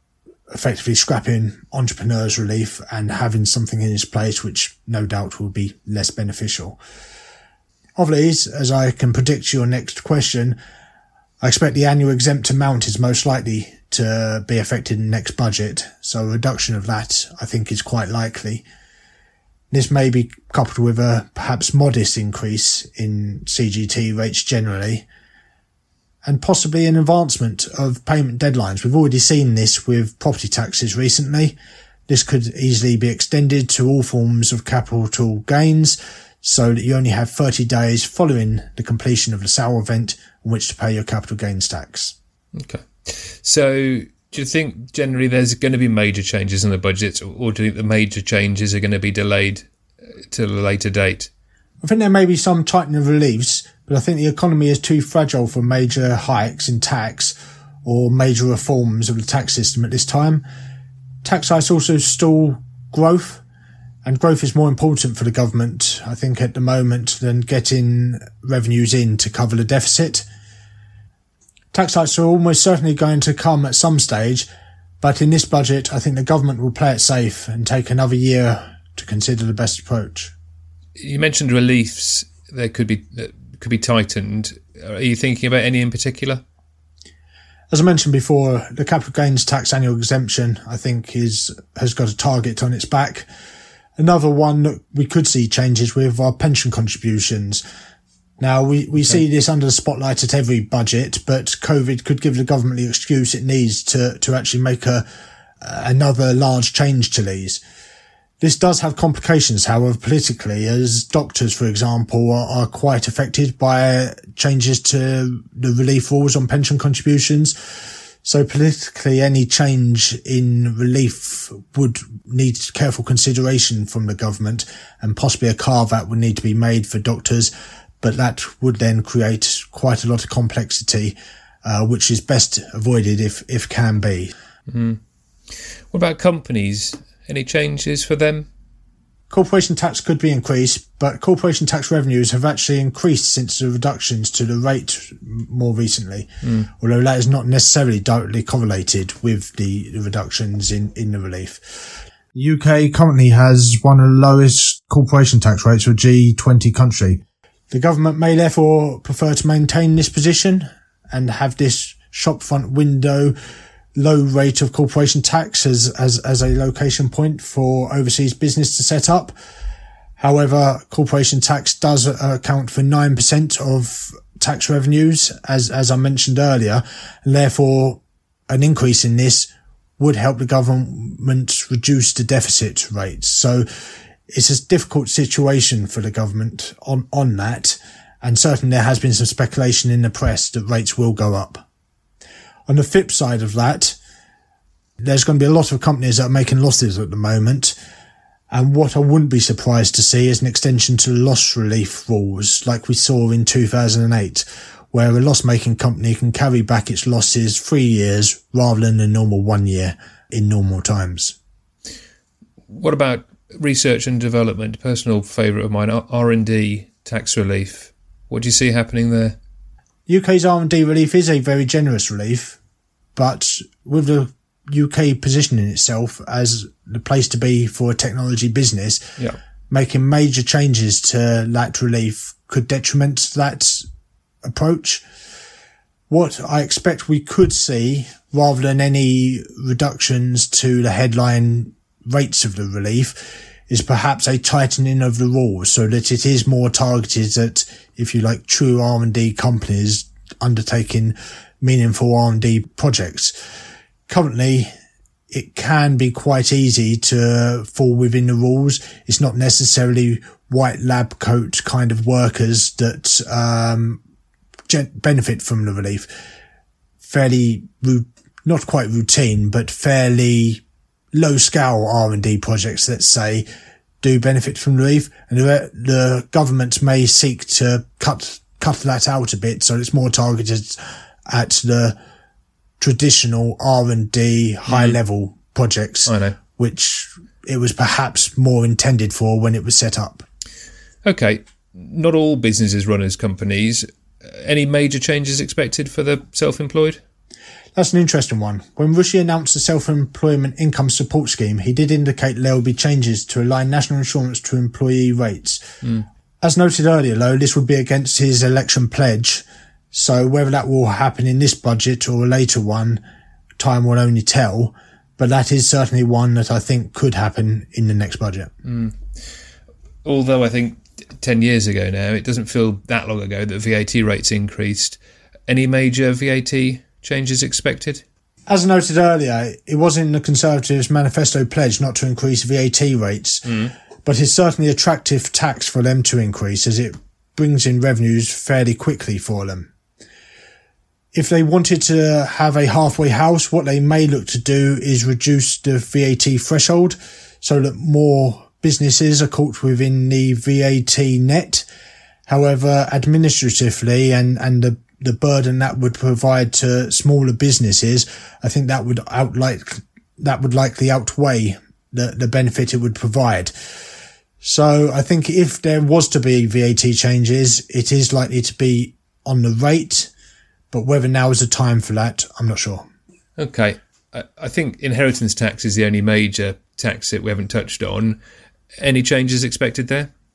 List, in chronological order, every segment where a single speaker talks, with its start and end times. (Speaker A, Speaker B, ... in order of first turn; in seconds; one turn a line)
Speaker A: 0.5-6.8
Speaker A: 8.0-10.6
Speaker A: 11.4-18.6
Speaker A: 19.7-25.1
Speaker A: 26.2-31.6
Speaker A: 32.1-42.1
Speaker B: 42.5-49.7
Speaker B: 50.3-51.3
Speaker A: 51.8-60.4
Speaker A: 61.2-63.4
Speaker A: 64.0-70.2
Speaker A: 71.7-74.5
Speaker A: 75.0-80.3
Speaker B: 81.0-86.4
Speaker A: 87.7-93.3
Speaker A: 94.0-97.6
Speaker A: 98.4-105.0
Speaker A: 105.6-107.6
Speaker A: 108.4-117.5
Speaker A: 118.2-127.5
Speaker A: 128.0-134.3
Speaker B: 134.7-135.0
Speaker B: 135.9-138.5
Speaker A: 139.3-146.3
Speaker B: 146.4-146.7
Speaker A: 146.8-151.6
Speaker A: 152.3-163.3
Speaker A: 163.9-169.3
Speaker A: 170.2-183.6
Speaker A: 184.3-191.6
Speaker A: 192.7-194.0
Speaker A: 195.0-197.8
Speaker A: 198.5-211.4
Speaker B: 212.7-219.4
Speaker A: 220.1-222.6
Speaker A: 223.2-229.0
Speaker A: 229.7-233.8
Speaker A: 234.4-235.0
Speaker A: 236.1-253.3
Speaker A: 254.1-254.7
Speaker A: 255.3-264.0
Speaker A: 264.7-266.1
Speaker A: 267.0-270.6
Speaker A: 271.1-273.4
Speaker A: 274.0-281.9
Speaker A: 282.8-290.2
Speaker B: 284.7-285.0
Speaker B: 286.1-286.4
Speaker B: 291.0-297.0
Speaker A: 297.7-305.6
Speaker A: 306.4-313.0
Speaker A: 313.6-318.5
Speaker B: 318.6-319.0
Speaker B: 320.0-328.0
Speaker A: 328.5-333.5
Speaker B: 333.4-333.7
Speaker A: 334.0-339.7
Speaker A: 341.1-351.6
Speaker A: 352.3-363.5
Speaker A: 364.4-370.1
Speaker A: 370.7-372.9
Speaker B: 373.4-378.2
Speaker B: 378.8-380.1